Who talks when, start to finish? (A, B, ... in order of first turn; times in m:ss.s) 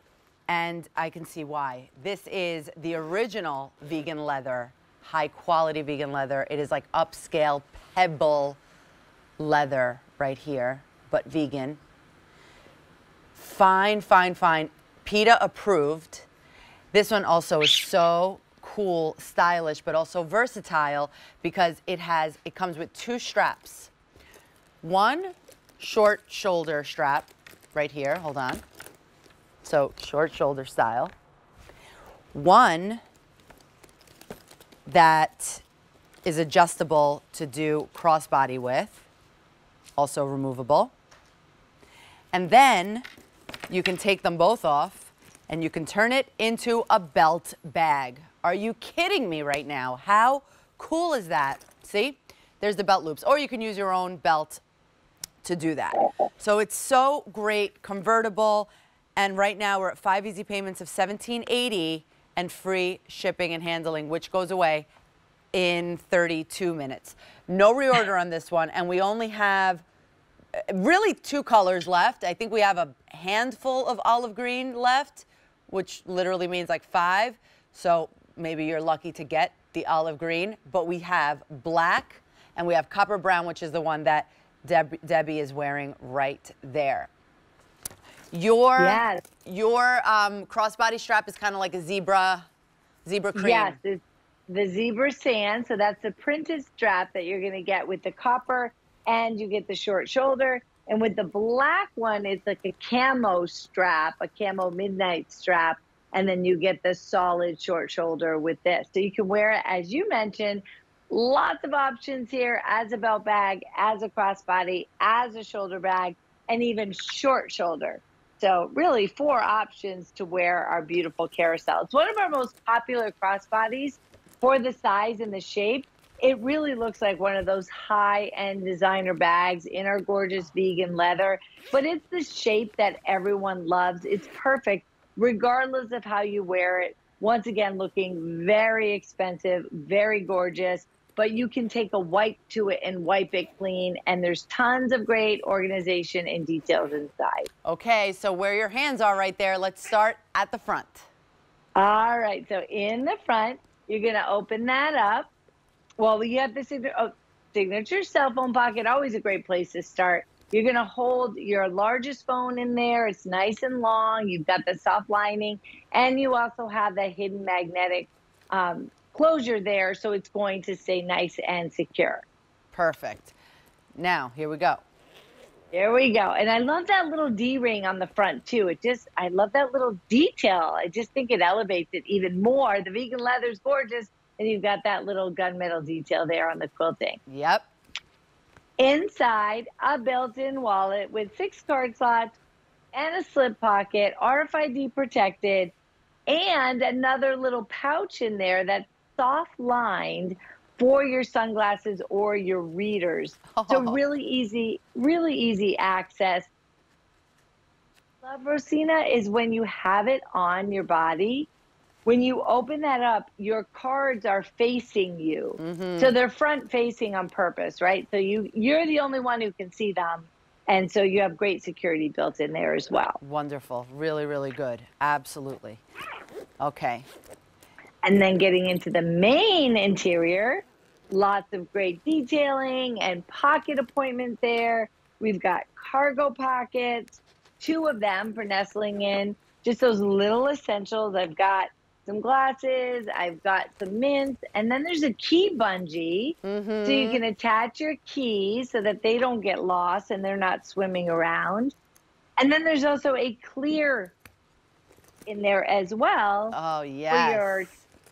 0:00.5-0:08.6 A
0:09.4-0:11.8 A
0:13.4-0:16.3 A
0:16.9-0:23.9 A
0:24.8-0:28.6 A
0:29.6-0:31.1 A
0:32.3-0:33.0 A
0:34.8-0:35.6 A
0:36.2-0:39.0 A
0:40.0-0:40.9 A
0:42.3-0:43.0 A
0:43.7-0:54.6 A
0:55.4-1:04.9 A
1:05.5-1:09.8 A
1:10.7-1:27.1 A
1:28.3-1:32.4 A
1:28.8-1:29.2 B
1:33.0-1:33.8 A
1:33.3-2:27.5 B
2:27.6-2:31.1 A
2:31.8-2:35.3 B
2:36.0-2:52.2 B
2:52.7-2:53.3 A
2:54.0-2:54.8 A
2:55.7-3:07.2 B
3:07.3-3:07.6 A
3:08.8-3:12.4 B
3:12.9-3:15.7 B
3:16.3-3:26.5 B
3:23.5-3:24.0 A
3:28.2-3:31.5 B
3:32.0-3:43.2 B
3:35.6-3:36.1 A
3:43.2-3:45.8 A
3:46.6-3:47.0 A
3:48.0-4:11.7 B
4:06.4-4:07.2 A
4:12.4-4:14.1 B
4:15.3-4:16.6 B
4:16.5-4:17.7 A
4:17.1-4:17.7 B